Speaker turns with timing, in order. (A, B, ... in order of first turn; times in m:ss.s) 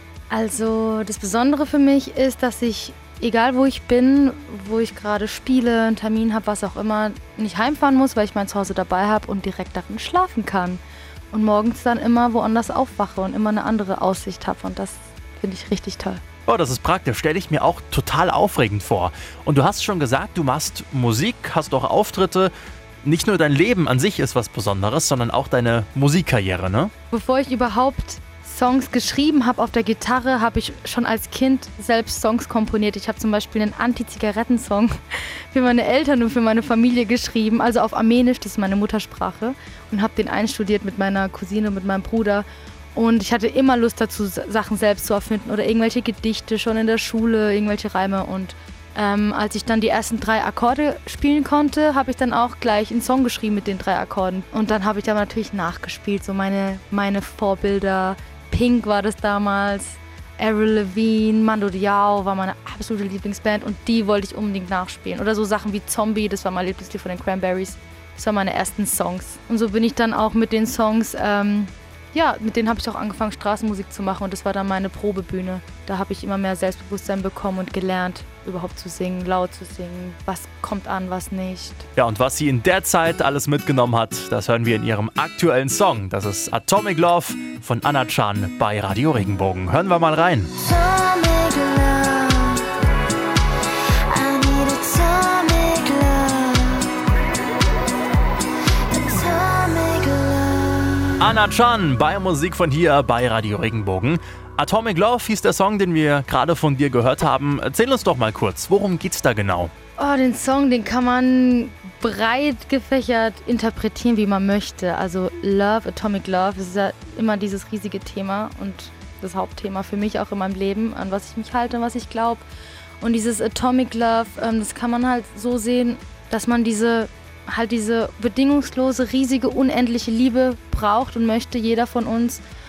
0:00.3-0:10.8 A
0:11.3-0:16.2 A
0:16.4-0:22.5 B
0:23.0-0:26.9 B
0:27.1-0:34.9 A
0:35.5-1:21.8 A
1:22.0-1:30.5 B
1:30.6-1:32.6 A
1:34.1-1:36.7 A
1:39.0-1:40.8 A
1:41.2-1:49.7 B
1:50.0-2:02.4 A
2:03.0-2:12.4 A